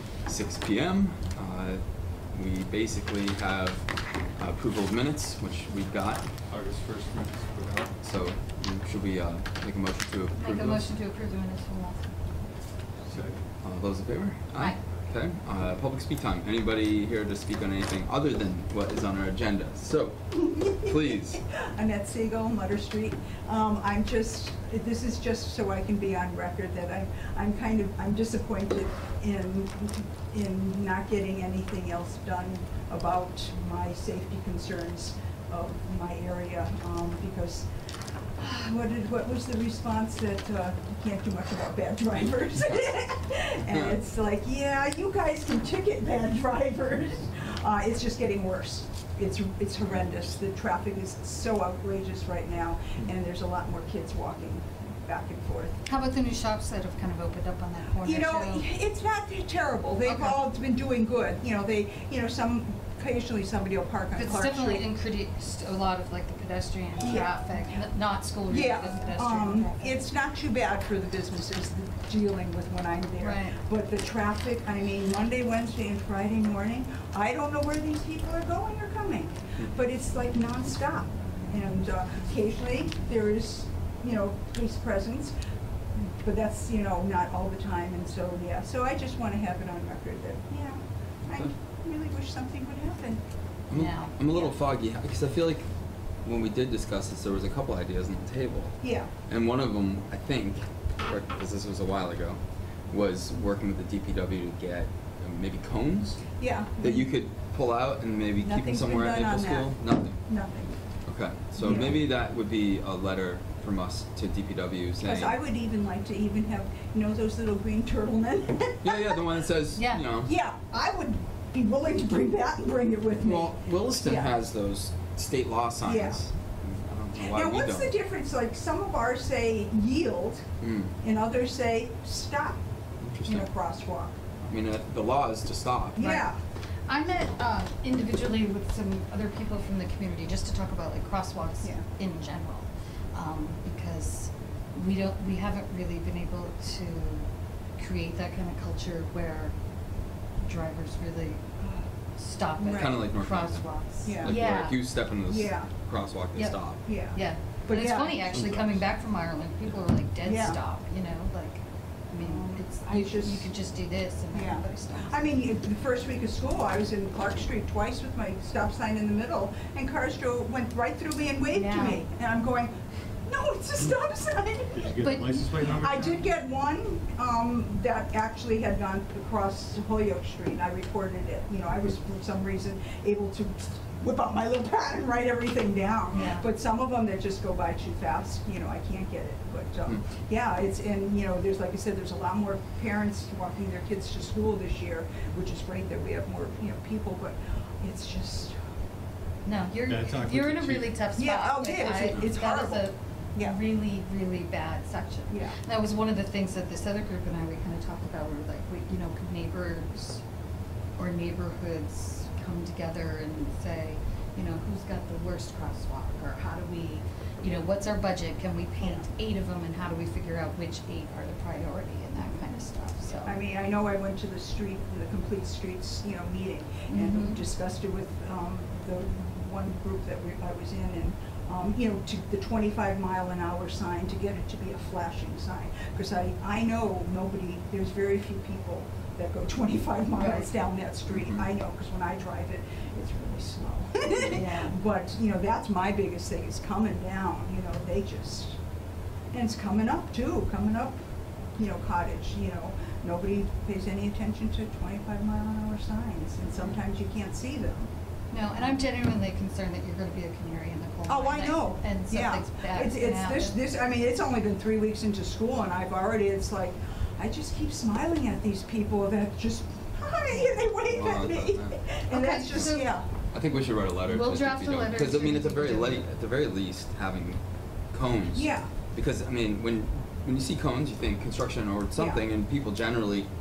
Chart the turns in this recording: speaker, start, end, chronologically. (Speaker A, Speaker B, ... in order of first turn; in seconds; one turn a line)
Speaker A: 0.3-1.8
Speaker A: 2.3-6.3
Speaker B: 6.5-8.0
Speaker A: 8.0-10.9
Speaker C: 10.4-12.0
Speaker B: 13.1-13.4
Speaker A: 13.6-21.4
Speaker D: 20.3-37.7
Speaker D: 38.4-55.8
Speaker C: 55.9-58.7
Speaker D: 58.0-64.8
Speaker C: 60.0-60.4
Speaker C: 64.1-70.0
Speaker D: 67.0-67.4
Speaker D: 68.5-85.3
Speaker C: 73.2-73.6
Speaker D: 86.0-93.2
Speaker A: 93.7-95.7
Speaker C: 93.7-94.2
Speaker A: 96.2-106.3
Speaker D: 98.8-99.1
Speaker D: 106.4-107.1
Speaker A: 106.8-110.2
Speaker D: 108.4-110.8
Speaker A: 111.1-115.4
Speaker D: 111.6-112.0
Speaker D: 115.0-119.2
Speaker A: 118.8-120.3
Speaker C: 119.8-120.0
Speaker D: 120.2-124.4
Speaker A: 123.2-128.0
Speaker D: 125.8-126.2
Speaker D: 127.2-130.4
Speaker A: 130.6-130.9
Speaker D: 131.0-132.6
Speaker A: 133.0-133.5
Speaker D: 133.2-134.2
Speaker A: 134.4-136.2
Speaker D: 135.9-136.4
Speaker C: 136.0-136.2
Speaker C: 136.9-149.5
Speaker C: 150.4-151.4
Speaker C: 152.2-154.8
Speaker D: 152.6-153.0
Speaker A: 152.7-153.7
Speaker D: 154.0-154.4
Speaker A: 154.2-156.8
Speaker D: 155.2-155.7
Speaker C: 156.3-165.3
Speaker D: 156.8-158.4
Speaker A: 158.3-158.8
Speaker D: 160.2-160.6
Speaker D: 162.2-163.5
Speaker D: 164.3-172.7
Speaker C: 171.5-172.0
Speaker D: 173.2-198.6
Speaker B: 174.7-176.3
Speaker C: 175.0-175.7
Speaker C: 186.1-186.4
Speaker C: 199.4-210.2
Speaker B: 199.8-201.0
Speaker D: 201.1-203.6
Speaker D: 205.3-205.6
Speaker C: 211.0-223.4
Speaker D: 223.2-248.6
Speaker C: 226.9-227.4
Speaker C: 240.2-240.5
Speaker A: 241.1-241.4
Speaker C: 244.2-244.8
Speaker D: 249.3-251.0
Speaker D: 251.6-257.9
Speaker A: 256.6-256.8
Speaker C: 258.3-263.6
Speaker D: 261.1-273.1
Speaker C: 270.3-270.6
Speaker A: 270.9-271.8
Speaker C: 272.1-273.0
Speaker A: 273.3-277.4
Speaker C: 274.1-276.1
Speaker A: 277.9-283.3
Speaker D: 278.3-278.7
Speaker D: 282.0-282.2